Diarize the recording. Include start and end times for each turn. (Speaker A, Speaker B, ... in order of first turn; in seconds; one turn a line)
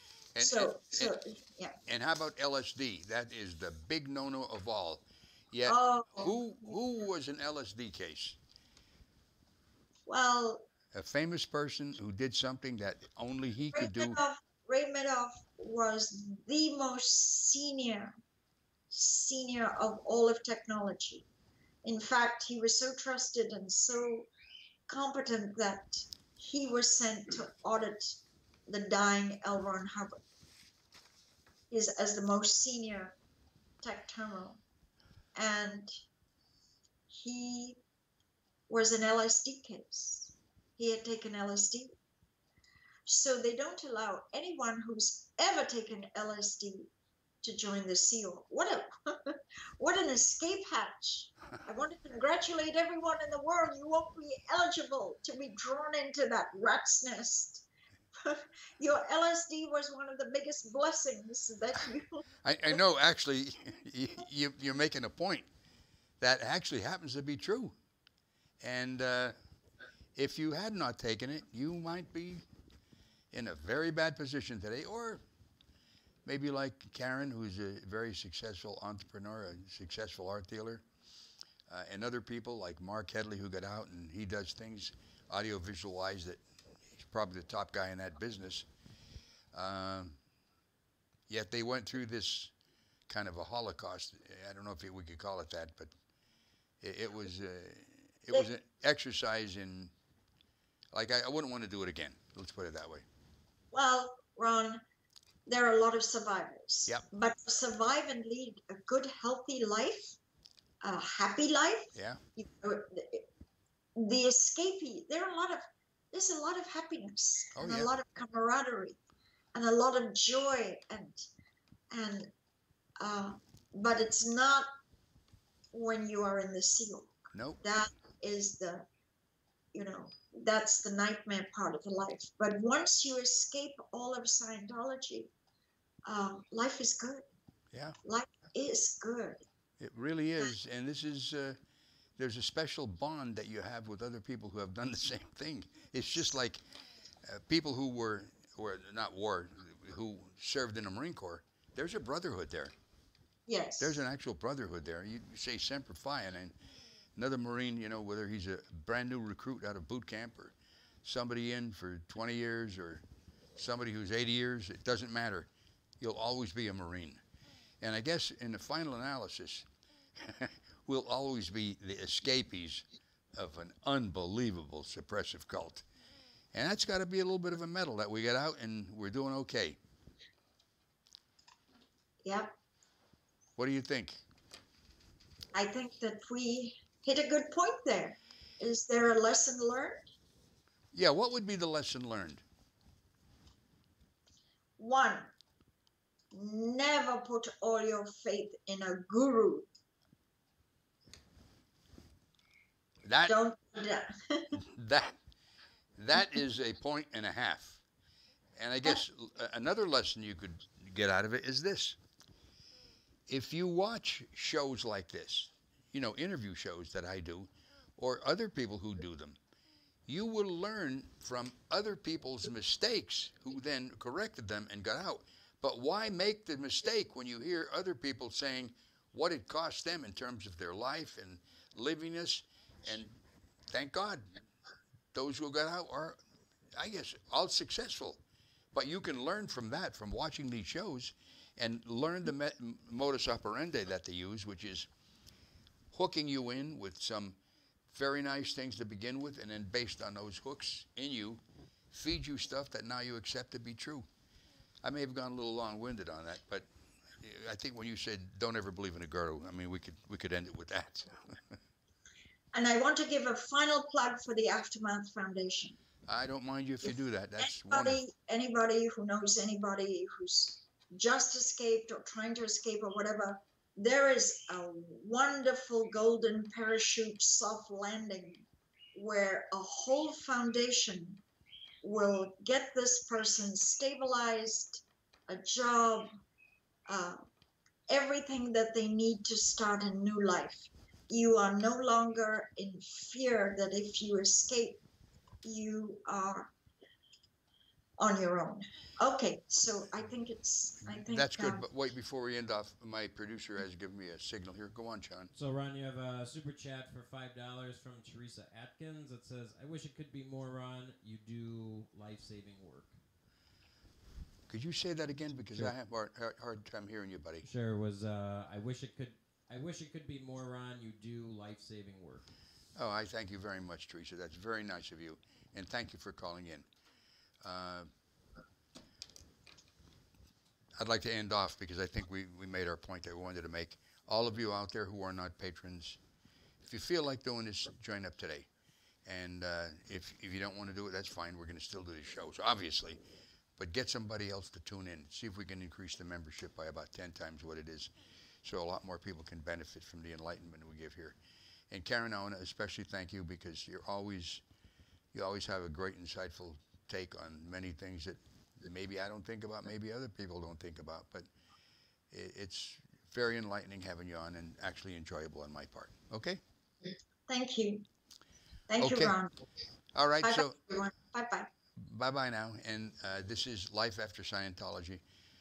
Speaker A: 0.3-1.1
Speaker B: 0.4-1.8
Speaker A: 1.9-8.4
Speaker B: 5.7-6.3
Speaker B: 10.1-10.7
Speaker A: 10.9-14.2
Speaker B: 13.7-18.2
Speaker B: 18.9-21.2
Speaker B: 21.8-24.3
Speaker B: 24.9-30.1
Speaker B: 31.7-33.1
Speaker B: 33.8-34.6
Speaker B: 35.3-35.9
Speaker B: 37.1-37.8
Speaker B: 38.7-41.9
Speaker B: 43.0-46.9
Speaker B: 47.4-62.8
Speaker A: 62.4-65.5
Speaker A: 66.2-67.7
Speaker A: 68.6-69.3
Speaker A: 70.1-72.4
Speaker A: 73.3-75.2
Speaker A: 76.2-80.8
Speaker A: 81.7-88.7
Speaker A: 89.5-90.2
Speaker A: 91.3-92.5
Speaker A: 93.1-95.9
Speaker A: 96.8-99.9
Speaker A: 100.9-103.0
Speaker B: 103.7-104.8
Speaker B: 105.5-110.2
Speaker B: 110.8-113.3
Speaker A: 111.9-112.2
Speaker B: 114.0-119.0
Speaker A: 117.5-117.9
Speaker B: 119.5-121.3
Speaker B: 121.9-122.3
Speaker B: 123.0-124.7
Speaker B: 125.7-128.9
Speaker A: 127.3-127.6
Speaker B: 129.7-135.3
Speaker B: 136.1-137.2
Speaker B: 138.0-139.4
Speaker A: 139.8-141.6
Speaker A: 142.2-146.6
Speaker A: 147.2-152.7
Speaker B: 153.5-154.0
Speaker A: 153.8-156.5
Speaker A: 157.2-163.0
Speaker A: 163.6-165.5
Speaker A: 166.0-167.2
Speaker A: 167.8-175.8
Speaker A: 176.5-179.8
Speaker B: 182.2-182.5
Speaker A: 183.6-184.2
Speaker B: 185.5-190.1
Speaker A: 190.9-192.4
Speaker B: 194.8-195.3
Speaker B: 196.3-199.7
Speaker A: 203.0-203.3
Speaker B: 203.2-204.6
Speaker A: 204.5-205.2
Speaker A: 206.0-207.8
Speaker A: 208.6-212.0
Speaker A: 213.3-219.4
Speaker A: 220.1-233.2
Speaker A: 233.7-234.4
Speaker A: 235.1-236.2
Speaker A: 236.7-238.2
Speaker A: 238.7-244.9
Speaker A: 245.9-247.4
Speaker A: 247.9-254.1
Speaker A: 254.8-261.6
Speaker B: 262.5-265.8
Speaker A: 266.1-268.0
Speaker B: 267.4-281.2
Speaker B: 281.8-286.1
Speaker B: 286.9-287.2
Speaker B: 287.9-294.8
Speaker B: 295.4-296.5
Speaker B: 298.0-301.6
Speaker A: 300.9-305.3
Speaker C: 305.3-312.9
Speaker A: 314.5-317.4
Speaker C: 317.4-322.2
Speaker A: 322.8-326.6
Speaker A: 327.4-327.9
Speaker A: 330.8-336.0
Speaker A: 336.6-338.5
Speaker A: 339.0-343.0
Speaker A: 343.6-351.2
Speaker A: 351.7-354.4
Speaker A: 355.1-361.2
Speaker A: 362.1-366.4
Speaker B: 367.3-367.8
Speaker B: 368.7-369.3
Speaker A: 368.8-369.1
Speaker A: 369.9-370.6
Speaker B: 370.2-371.5
Speaker A: 371.8-375.0